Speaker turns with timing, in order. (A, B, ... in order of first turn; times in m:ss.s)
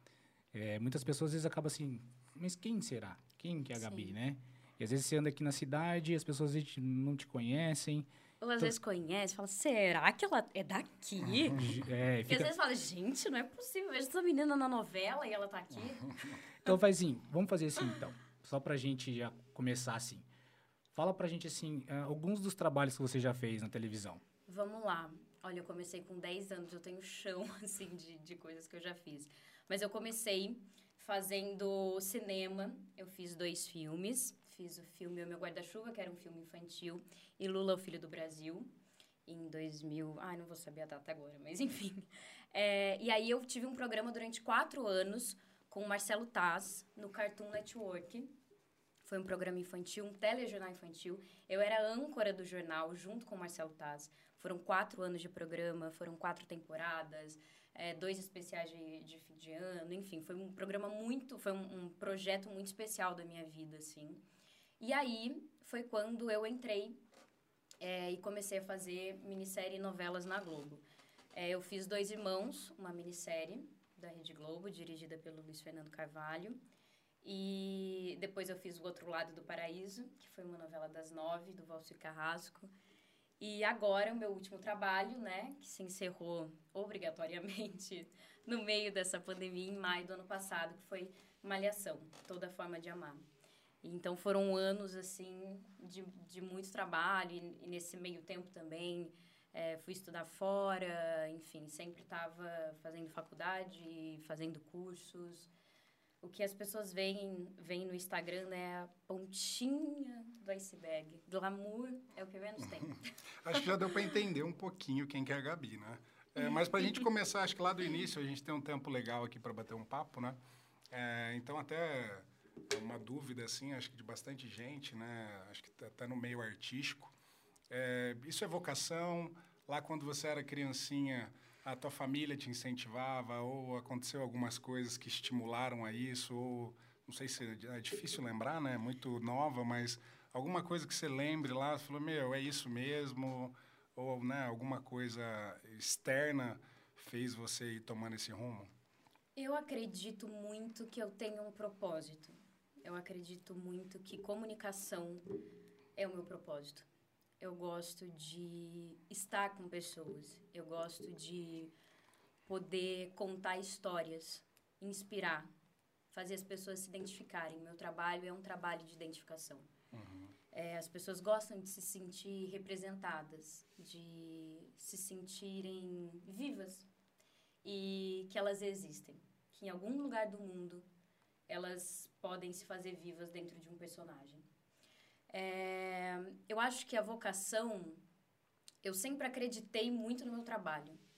0:00.5-0:08.1 A
0:03.8-0:04.1 B
0:08.4-0:11.7 B
0:11.5-0:12.5 A
0:12.3-0:16.8 B
0:16.6-0:20.2 A
0:20.9-0:24.2 A
0:24.5-0:38.7 B
0:39.2-0:48.3 B
0:49.0-1:04.2 B
1:04.8-1:07.0 B
1:07.8-1:16.6 B
1:17.2-1:22.7 B
1:23.4-1:33.2 B
1:33.8-1:45.5 B
1:46.2-1:53.7 B
1:52.8-2:00.4 C
1:56.4-1:57.0 B
2:00.9-2:07.1 C
2:07.7-2:28.7 C
2:29.4-2:35.2 B
2:36.0-2:36.8 B
2:37.4-2:41.7 B
2:42.4-2:45.5 B
2:46.1-2:49.7 B
2:49.9-2:50.3 C
2:50.5-2:56.9 B
2:57.6-3:00.8 B
3:01.5-3:04.4 B
3:05.3-3:08.0 B
3:08.8-3:11.0 B